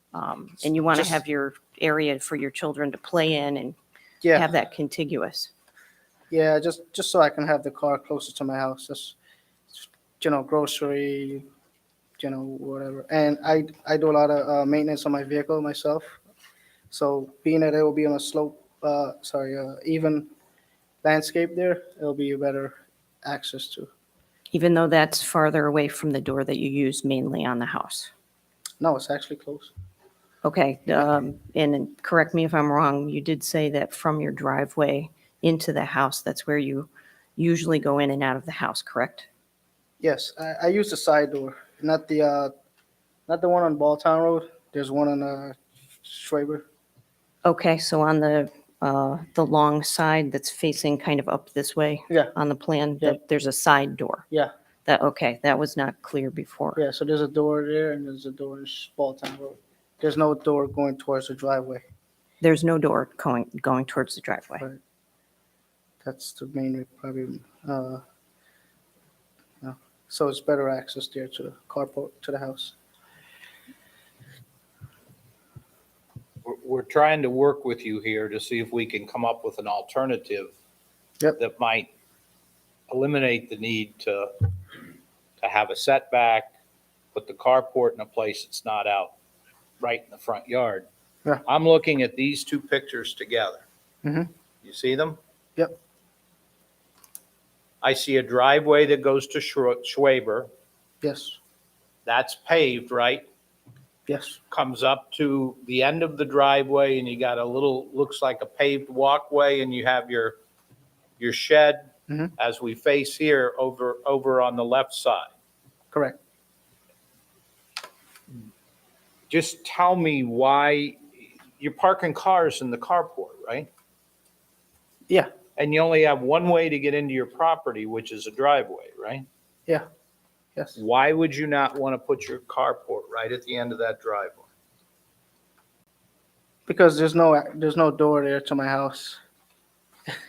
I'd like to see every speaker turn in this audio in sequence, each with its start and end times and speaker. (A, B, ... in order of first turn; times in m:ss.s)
0:00.1-0:03.8 A
0:04.3-0:05.5 A
0:06.3-0:09.2 B
0:09.7-0:11.4 B
0:12.2-0:16.2 B
0:16.9-0:20.3 B
0:21.0-0:23.9 B
0:24.5-0:28.1 A
0:28.8-0:29.7 B
0:30.4-0:39.3 A
0:40.0-0:42.5 B
0:43.3-0:46.7 B
0:47.4-0:54.2 A
0:54.9-0:56.8 A
0:56.8-1:01.8 B
1:02.4-1:04.6 A
1:06.0-1:08.0 B
1:09.6-1:12.7 B
1:16.4-1:20.5 C
1:21.4-1:21.9 C
1:22.9-1:24.3 C
1:25.4-1:26.5 C
1:27.2-1:29.1 C
1:29.8-1:30.9 C
1:31.5-1:33.6 C
1:34.0-1:34.3 B
1:34.6-1:35.2 C
1:37.8-1:40.5 C
1:41.0-1:41.4 B
1:42.0-1:43.2 C
1:44.1-1:44.4 B
1:44.5-1:50.4 C
1:51.2-1:55.3 C
1:55.9-1:56.2 B
1:59.3-2:01.0 C
2:01.6-2:03.7 C
2:05.6-2:09.3 C
2:10.8-2:14.5 C
2:16.7-2:19.2 B